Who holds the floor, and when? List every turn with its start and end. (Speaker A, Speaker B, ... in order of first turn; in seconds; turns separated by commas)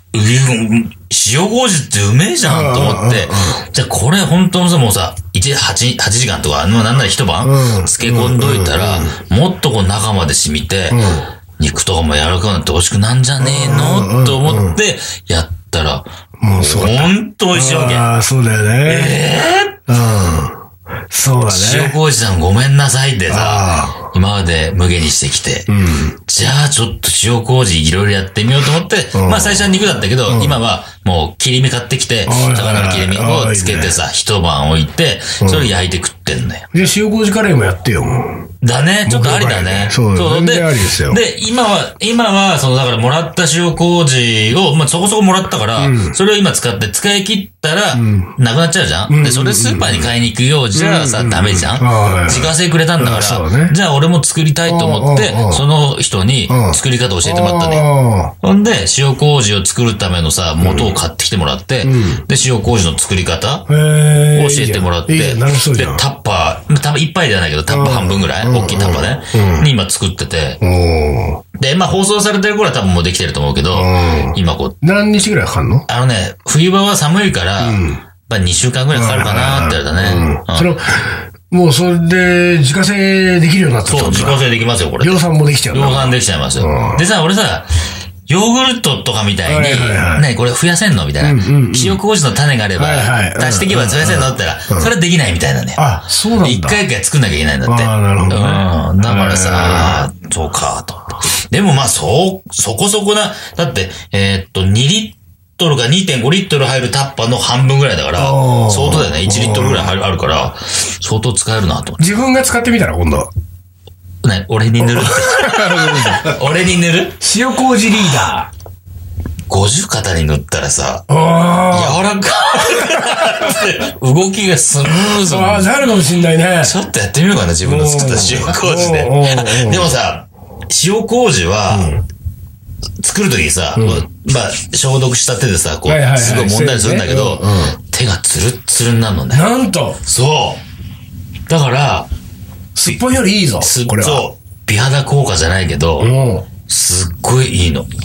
Speaker A: 0.1-18.1, Speaker B: 2.4-3.6, Speaker B: 7.4-9.2, Speaker B: 10.9-11.3, Speaker B: 13.4-14.8, Speaker B: 16.4-19.2, Speaker A: 18.8-19.8, Speaker B: 19.9-22.0, Speaker A: 21.5-25.7, Speaker B: 23.3-24.1, Speaker B: 25.7-26.2, Speaker A: 26.2-36.6, Speaker B: 29.1-29.7, Speaker B: 30.3-30.6, Speaker B: 32.3-33.9, Speaker B: 35.4-35.7, Speaker B: 36.7-38.5, Speaker A: 38.6-57.8, Speaker B: 39.0-41.2, Speaker B: 45.8-46.2, Speaker B: 47.9-48.3, Speaker B: 49.1-50.1, Speaker B: 50.7-53.8, Speaker B: 54.7-55.6, Speaker B: 56.5-58.3, Speaker A: 58.4-63.7, Speaker B: 60.6-60.9, Speaker B: 61.8-62.2, Speaker B: 63.7-66.0, Speaker A: 64.3-70.6, Speaker B: 67.7-69.7, Speaker B: 70.6-71.4, Speaker A: 71.5-74.8, Speaker B: 73.7-75.9, Speaker A: 75.9-80.7, Speaker B: 77.6-78.0, Speaker B: 78.9-84.4, Speaker A: 83.9-87.7, Speaker B: 85.0-87.0, Speaker A: 88.3-95.8, Speaker B: 89.5-90.3, Speaker B: 91.2-92.0, Speaker B: 92.8-94.9, Speaker B: 95.8-96.8, Speaker A: 96.4-112.0, Speaker B: 97.7-100.1, Speaker B: 108.2-109.9, Speaker B: 112.0-113.3, Speaker A: 114.2-117.2, Speaker B: 114.8-116.3, Speaker B: 117.2-118.5, Speaker A: 119.5-121.0, Speaker B: 121.1-122.0, Speaker A: 121.7-125.9, Speaker B: 122.5-123.7, Speaker B: 124.9-126.8, Speaker A: 126.6-131.9, Speaker B: 127.6-129.9, Speaker B: 131.7-132.0, Speaker A: 133.0-139.5, Speaker B: 133.8-134.1, Speaker B: 135.9-137.8, Speaker B: 139.3-140.0, Speaker A: 140.0-140.6, Speaker A: 141.5-142.1, Speaker B: 142.8-144.3, Speaker A: 142.8-146.1, Speaker B: 146.0-146.5, Speaker A: 146.7-147.9